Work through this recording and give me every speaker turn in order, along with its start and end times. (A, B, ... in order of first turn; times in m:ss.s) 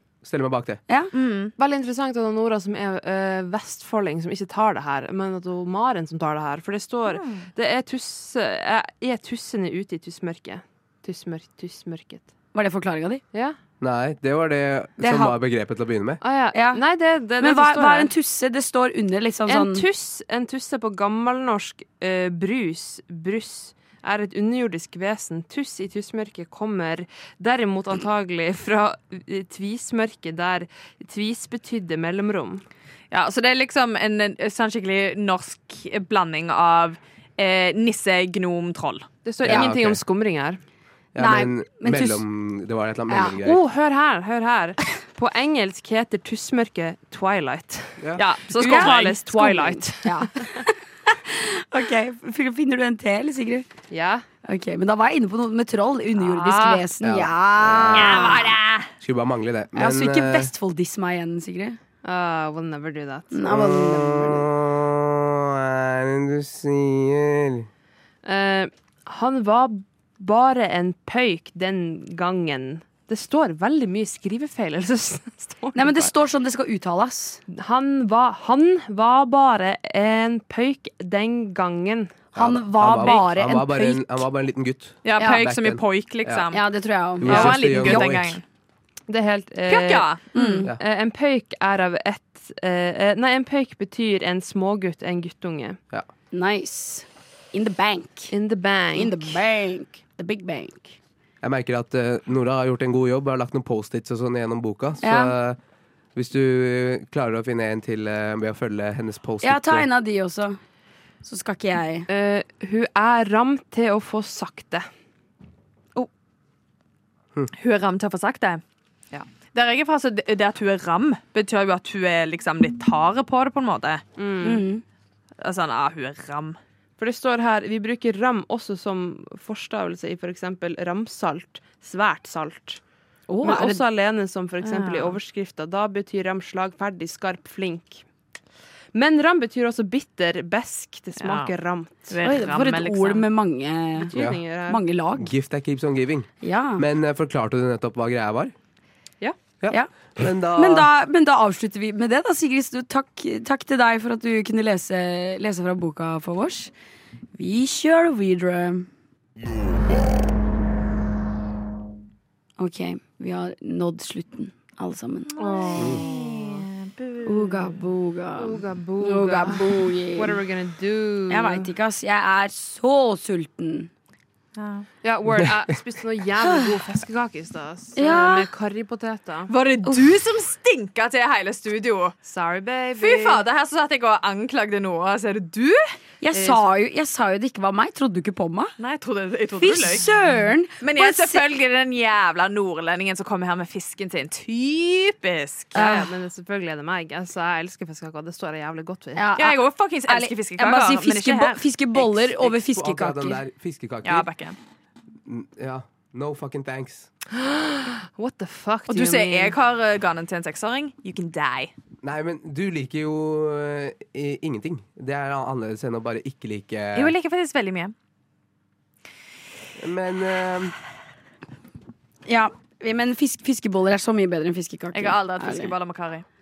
0:00.2-0:00.8 A
0:01.1-0:01.5 B
0:01.6-0:12.3 C
0:07.1-0:07.5 B
0:12.5-0:13.2 D
0:13.8-0:16.2 A
0:15.0-0:15.4 D
0:16.2-0:18.1 C
0:16.5-0:16.8 D
0:17.4-0:19.9 D
0:19.5-0:32.6 C
0:33.1-0:39.1 B
0:39.2-0:40.6 C
0:39.4-0:40.0 A
0:39.4-0:39.8 D
0:41.2-0:43.6 A
0:41.2-0:42.2 D
0:43.1-0:43.4 D
0:43.4-0:50.5 C
0:48.2-0:49.2 B
0:48.6-0:53.7 D
0:53.9-0:54.3 C
0:54.4-0:58.6 D
0:56.2-0:56.8 C
0:57.0-0:58.2 A
0:57.9-0:58.9 B
0:59.0-1:00.5 A
0:59.8-1:01.8 D
1:02.0-1:03.5 C
1:03.3-1:04.5 D
1:03.5-1:07.7 A
1:08.2-1:16.1 C
1:15.8-1:17.4 D
1:17.5-1:22.2 C
1:22.3-1:26.5 A
1:22.4-1:24.2 D
1:25.0-1:26.6 B
1:26.5-1:28.1 D
1:27.2-1:28.4 A
1:27.2-1:28.4 B
1:29.1-1:35.8 C
1:29.7-1:30.4 B
1:30.3-1:30.7 D
1:36.3-1:38.3 D
1:38.3-1:39.4 C
1:39.0-1:41.0 D
1:41.4-1:45.6 A
1:45.0-1:45.3 D
1:46.2-1:49.9 A
1:49.4-1:50.6 D
1:51.2-1:52.1 D
1:52.1-1:54.9 C
1:57.6-1:58.6 B
1:59.5-2:04.0 B
2:04.2-2:04.6 C
2:04.4-2:04.8 D
2:05.4-2:06.6 B
2:07.0-2:12.8 C
2:13.3-2:13.8 D
2:13.4-2:18.0 C
2:14.6-2:15.2 B
2:18.9-2:22.1 C
2:21.2-2:21.5 B
2:22.1-2:23.2 B
2:22.2-2:24.1 D
2:24.0-2:24.8 C
2:24.1-2:24.4 A
2:24.7-2:25.3 D
2:25.2-2:28.5 A
2:26.4-2:26.9 D
2:29.6-2:30.9 A
2:29.7-2:36.7 D
2:37.4-2:38.9 D
2:42.6-2:45.4 D
2:45.4-2:47.8 B
2:45.4-2:46.7 C
2:45.8-2:46.0 A
2:47.2-2:50.4 D
2:48.4-2:51.7 C
2:51.3-2:53.9 D
2:54.6-2:54.9 B
2:55.0-2:59.5 C
2:56.4-2:56.7 D
2:58.0-2:58.5 D
2:59.5-3:02.2 B
3:02.2-3:03.4 C
3:03.0-3:05.9 B
3:06.2-3:08.7 D
3:06.3-3:06.7 C
3:08.8-3:10.1 B
3:09.6-3:11.4 D
3:10.8-3:16.0 B
3:15.8-3:16.1 D
3:15.8-3:19.3 C
3:19.2-3:23.4 D
3:19.4-3:21.6 B
3:22.0-3:24.3 A
3:24.0-3:24.6 B
3:25.3-3:27.1 A
3:27.3-3:29.6 C
3:28.9-3:31.7 B
3:32.0-3:37.1 A
3:37.0-3:37.9 B
3:39.8-3:40.7 A
3:42.3-3:45.7 D
3:44.9-3:46.3 B